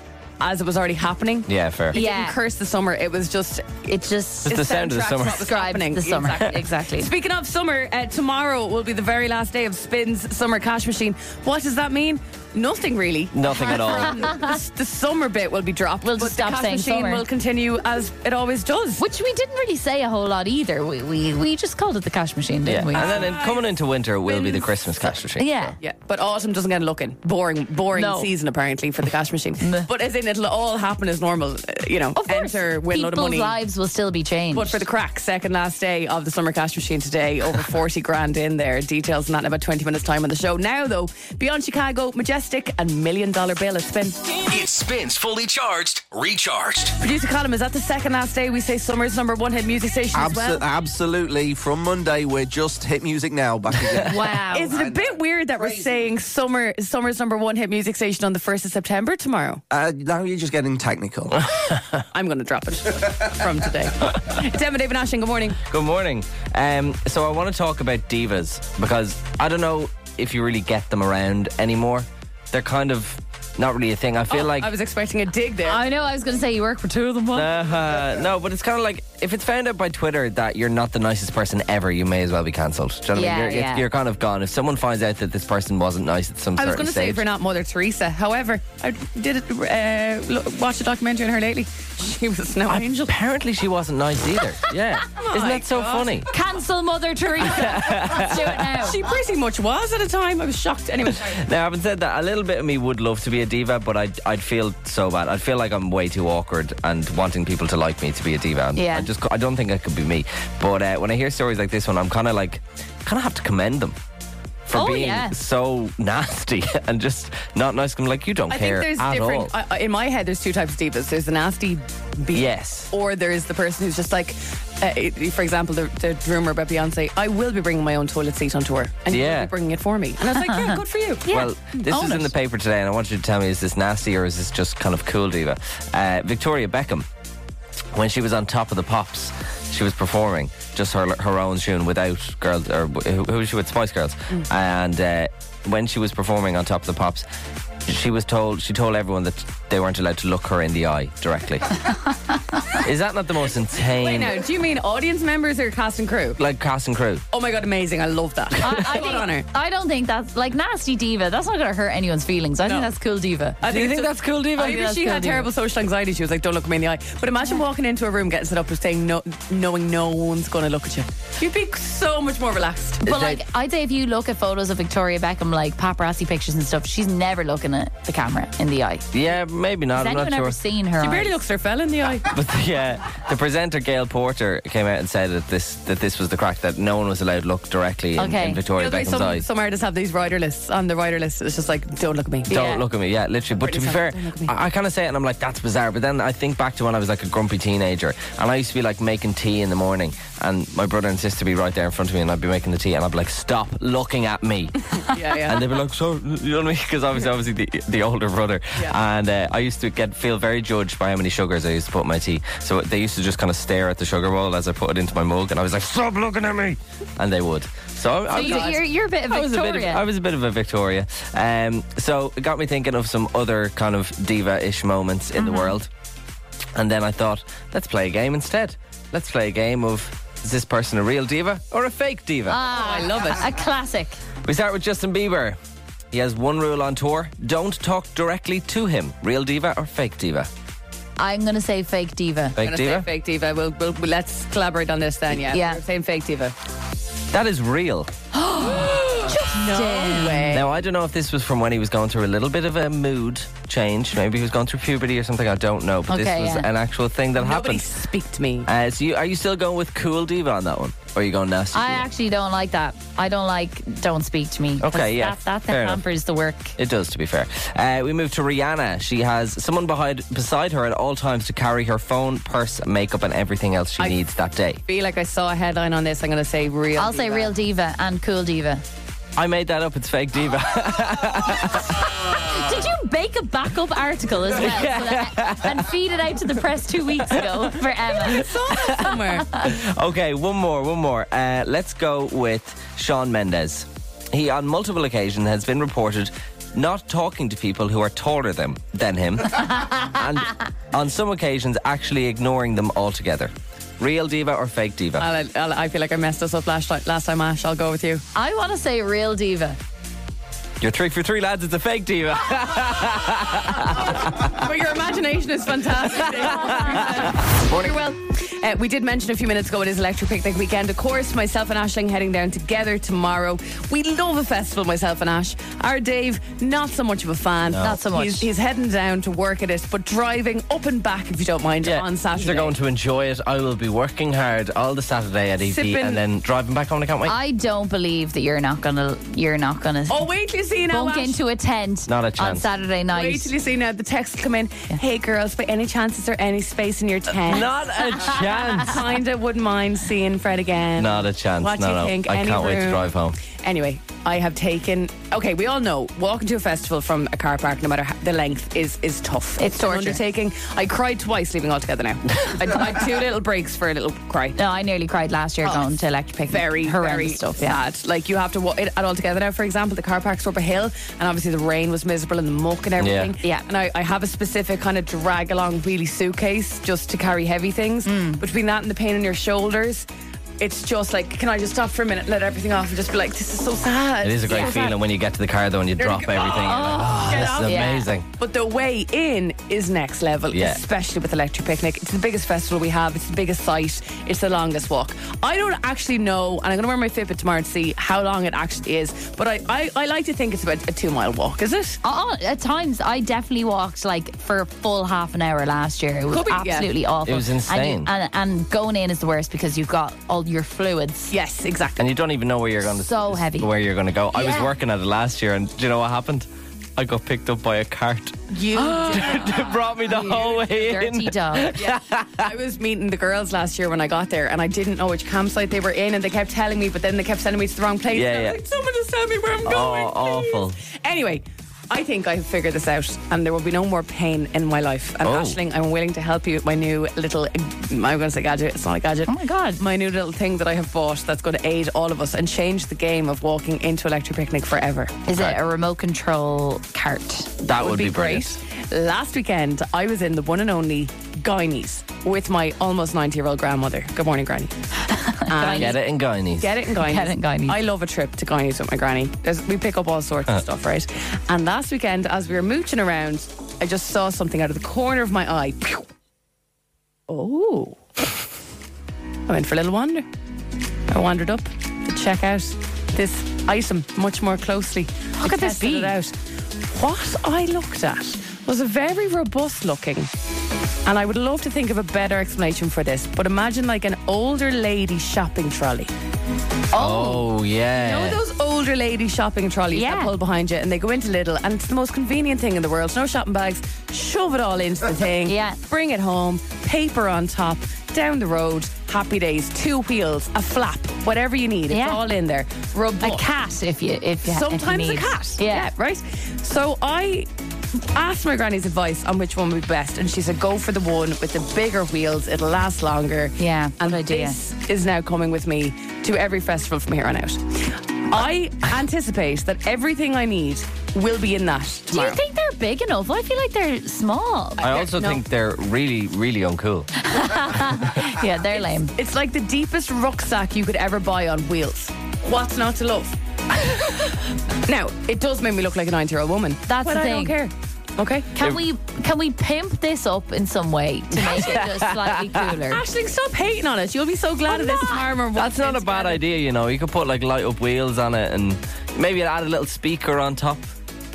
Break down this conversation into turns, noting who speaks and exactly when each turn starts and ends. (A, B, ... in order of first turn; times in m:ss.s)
0:00.4-0:03.9 A
0:01.5-0:02.0 B
0:01.9-0:02.4 C
0:03.9-0:04.6 C
0:04.5-0:05.5 B
0:04.5-0:19.0 A
0:05.4-0:07.1 C
0:13.3-0:14.2 B
0:14.0-0:14.5 C
0:16.0-0:17.2 C
0:19.0-0:23.3 C
0:22.6-0:25.7 B
0:22.9-0:23.7 A
0:24.2-0:24.7 A
0:25.4-0:25.8 C
0:25.8-0:33.6 A
0:27.9-0:28.3 C
0:29.6-0:29.9 C
0:32.2-0:34.8 C
0:34.5-0:44.4 A
0:44.5-0:46.9 D
0:47.0-0:50.6 A
0:50.1-0:56.1 E
0:54.1-0:54.7 C
0:54.5-0:59.6 A
0:59.7-1:01.4 E
1:01.4-1:02.0 B
1:02.1-1:05.6 A
1:05.6-1:14.7 B
1:14.3-1:15.8 A
1:15.6-1:17.5 C
1:17.3-1:27.2 B
1:23.1-1:23.8 C
1:26.6-1:33.1 A
1:32.7-1:36.3 B
1:35.1-1:36.3 A
1:36.3-1:39.0 C
1:37.4-1:38.6 B
1:37.4-1:41.4 A
1:41.1-1:54.0 B
1:48.8-1:49.1 C
1:54.7-1:59.5 B
1:54.7-1:55.4 C
1:58.5-2:11.9 A
2:02.3-2:02.9 B
2:09.1-2:09.5 B
2:10.3-2:12.3 C
2:11.3-2:17.1 B
2:17.9-2:27.3 B
2:27.9-2:31.9 B
2:32.8-2:34.4 B
2:33.9-2:36.4 A
2:36.4-2:37.2 B
2:37.3-2:39.5 A
2:38.6-2:43.6 C
2:42.6-2:42.9 A
2:43.6-2:53.0 A
2:43.7-2:44.8 B
2:44.6-2:45.5 C
2:53.0-2:53.4 B
2:53.0-2:59.1 C
2:59.1-3:00.6 B
2:59.9-3:01.4 C
3:01.0-3:02.3 A
3:02.3-3:09.4 B
3:08.2-3:08.6 C
3:08.8-3:12.5 A
3:12.5-3:45.9 B
3:12.5-3:12.8 C
3:13.6-3:14.5 A
3:25.1-3:25.7 A
3:38.3-3:38.8 A
3:38.3-3:40.0 C
3:45.4-3:45.7 C
3:46.8-3:52.6 B
3:52.5-3:54.2 C
3:52.7-3:53.4 A
3:54.4-3:55.6 B
3:56.1-4:00.5 B
4:01.2-4:02.6 C
4:02.6-4:03.1 B
4:02.6-4:06.6 A
4:05.5-4:05.8 C
4:07.3-4:08.1 B
4:08.3-4:10.6 C
4:08.7-4:10.7 A
4:10.5-4:17.8 B
4:16.1-4:16.7 C
4:17.4-4:18.7 A
4:18.7-4:22.1 B
4:21.7-4:26.7 C
4:24.8-4:26.0 B
4:26.8-4:34.8 B
4:34.9-4:37.5 A
4:37.0-4:38.8 C
4:39.4-4:42.4 B
4:42.2-4:49.7 C
4:44.5-4:45.9 B
4:47.3-5:05.3 B
4:48.2-4:49.5 A
5:05.2-5:08.2 A
5:08.4-5:09.8 C
5:10.8-5:14.5 B
5:14.4-5:32.7 A
5:16.1-5:17.9 B
5:27.7-5:28.0 B
5:27.8-5:28.5 C
5:31.8-5:37.4 B
5:35.6-5:36.2 A
5:37.2-5:40.3 C
5:40.1-5:41.4 A
5:40.9-5:43.5 C
5:42.1-5:42.7 B
5:43.1-6:04.6 A
5:47.4-5:49.2 B
5:51.0-5:53.4 B
5:59.6-6:00.2 C
6:04.6-6:07.8 C
6:06.5-6:20.1 A
6:13.0-6:13.3 B
6:18.1-6:18.4 C
6:20.6-6:24.9 A
6:24.2-6:28.2 B
6:24.5-6:25.0 C
6:26.0-6:42.0 A
6:26.6-6:28.1 C
6:30.5-6:30.8 B
6:42.0-6:51.3 C
6:46.3-6:46.9 A
6:47.3-6:48.1 B
6:51.3-6:52.1 A
6:52.0-7:02.5 B
6:53.0-6:53.7 C
6:54.3-6:54.7 C
6:58.5-7:00.0 A
7:00.1-7:01.8 C
7:01.7-7:25.2 A
7:08.1-7:08.6 B
7:09.6-7:10.8 B
7:15.2-7:15.6 B
7:19.3-7:19.8 C
7:25.3-7:27.6 C
7:27.6-7:28.6 B
7:27.8-7:34.8 A
7:35.1-7:35.9 C
7:35.5-7:36.0 A
7:35.7-7:36.8 B
7:36.6-7:46.1 A
7:37.0-7:37.8 C
7:47.3-7:48.0 A
7:49.5-7:50.3 A
7:51.1-7:56.3 A
7:55.4-7:56.1 C
7:56.9-8:00.3 A
8:01.1-8:06.1 A
8:06.9-8:07.4 C
8:06.9-8:08.4 B
8:08.0-8:23.5 A
8:09.9-8:10.3 C
8:15.5-8:15.8 C
8:21.9-8:22.2 C
8:23.2-8:25.9 C
8:24.4-8:27.5 A
8:28.0-8:42.4 A
8:33.6-8:34.6 C
8:42.1-8:44.8 C
8:44.8-8:45.4 A
8:44.8-8:47.1 B
8:47.2-8:49.1 C
8:48.7-8:58.5 A
8:56.9-8:57.6 C
8:58.5-9:03.0 C
9:01.5-9:02.5 B
9:02.9-9:06.4 A
9:04.7-9:05.2 C
9:05.6-9:10.9 B